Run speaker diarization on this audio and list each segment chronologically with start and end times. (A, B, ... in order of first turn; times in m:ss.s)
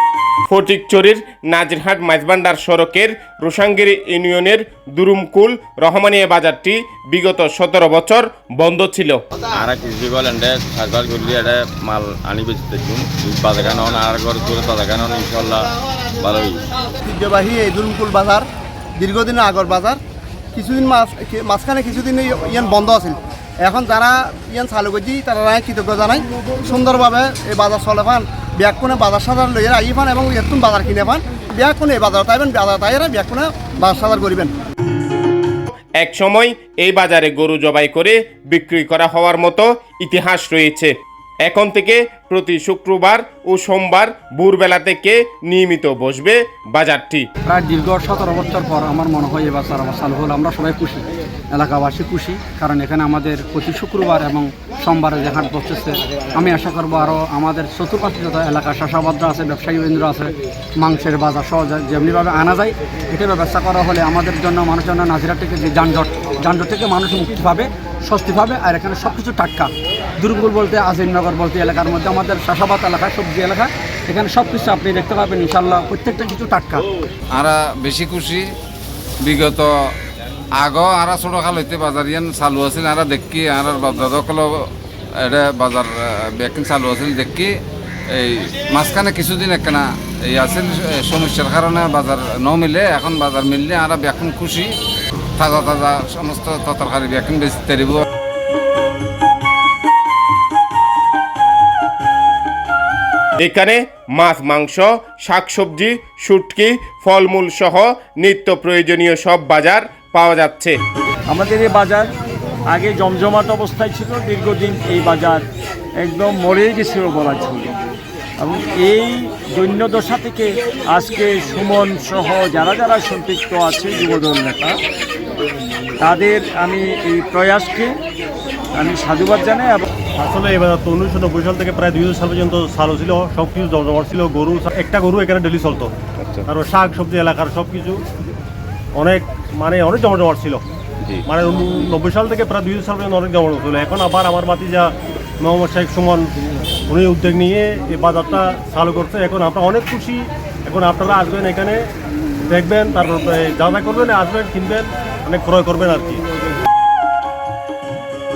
0:00.5-0:09.2 A
0:09.6-0:15.7 B
0:16.2-0:16.6 B
0:17.0-0:18.5 C
0:19.0-0:20.0 C
0:20.6-0:34.5 C
0:36.0-0:40.9 A
0:41.5-0:47.3 A
0:47.5-1:16.8 D
1:17.4-1:18.4 E
1:19.2-1:19.7 E
1:20.6-1:24.6 E
1:25.2-1:27.5 E
1:28.1-1:34.7 E
1:35.4-1:38.0 E
1:43.4-1:50.8 A
1:51.3-1:52.1 F
1:52.7-1:55.5 F
1:56.0-1:57.8 F
1:58.4-2:04.8 F
2:06.0-2:08.0 F
2:08.8-2:09.9 F
2:10.2-2:15.9 G
2:16.5-2:18.0 G
2:19.0-2:20.6 G
2:21.3-2:24.9 G
2:25.4-2:26.3 G
2:26.9-2:31.8 G
2:32.5-2:36.2 G